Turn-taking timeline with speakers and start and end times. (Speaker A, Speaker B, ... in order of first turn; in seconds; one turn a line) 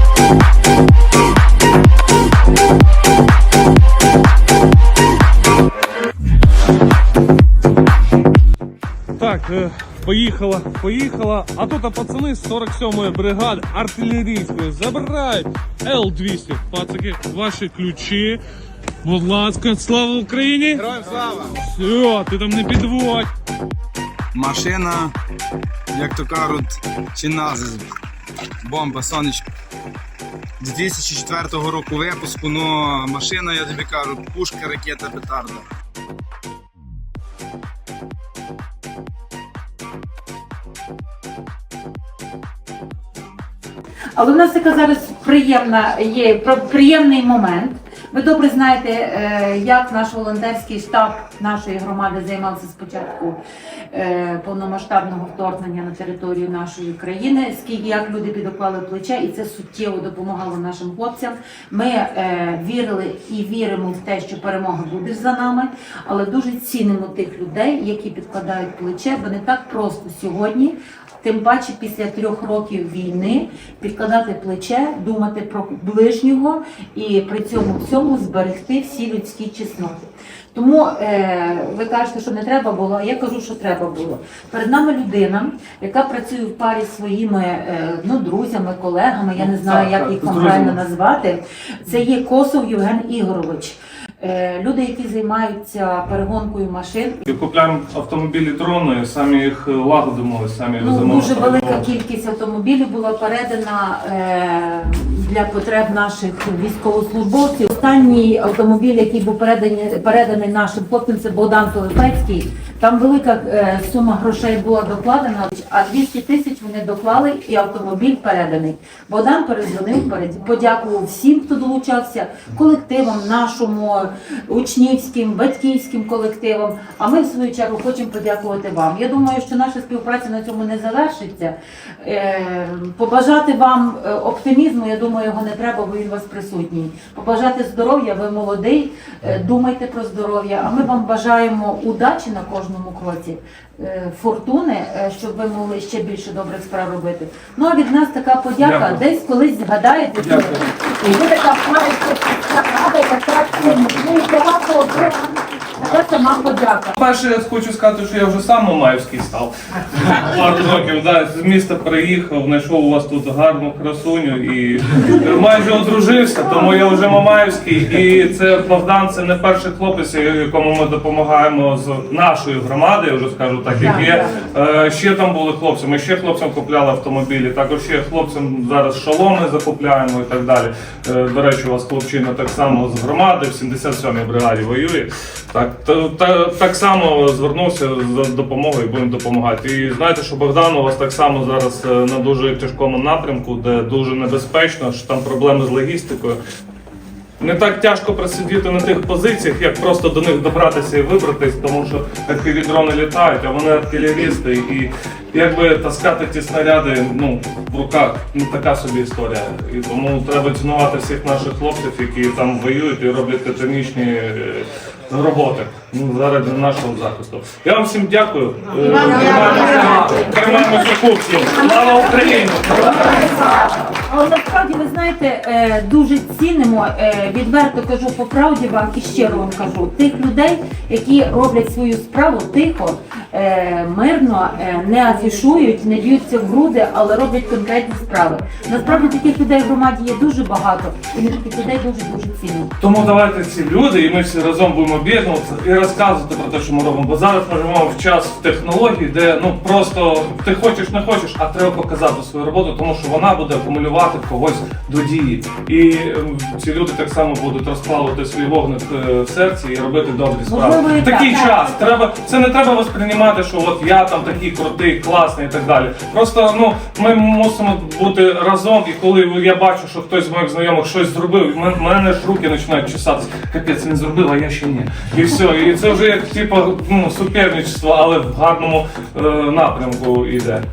Speaker A: 9.2-18.4
Speaker A: 19.0-20.9
Speaker B: 20.8-21.6
Speaker A: 21.6-23.3
Speaker B: 24.3-25.1
Speaker B: 25.9-27.9
Speaker B: 28.6-29.5
Speaker B: 30.6-35.6
Speaker C: 44.2-53.4
Speaker C: 53.9-97.2
Speaker A: 89.4-90.8
Speaker A: 97.3-101.9
Speaker C: 100.8-157.0
Speaker A: 148.6-149.0
Speaker A: 150.2-150.6
Speaker A: 157.0-196.4
Speaker C: 173.8-174.2
Speaker A: 197.4-223.3
Speaker C: 221.7-242.7
Speaker A: 242.8-280.6
Speaker C: 260.5-261.7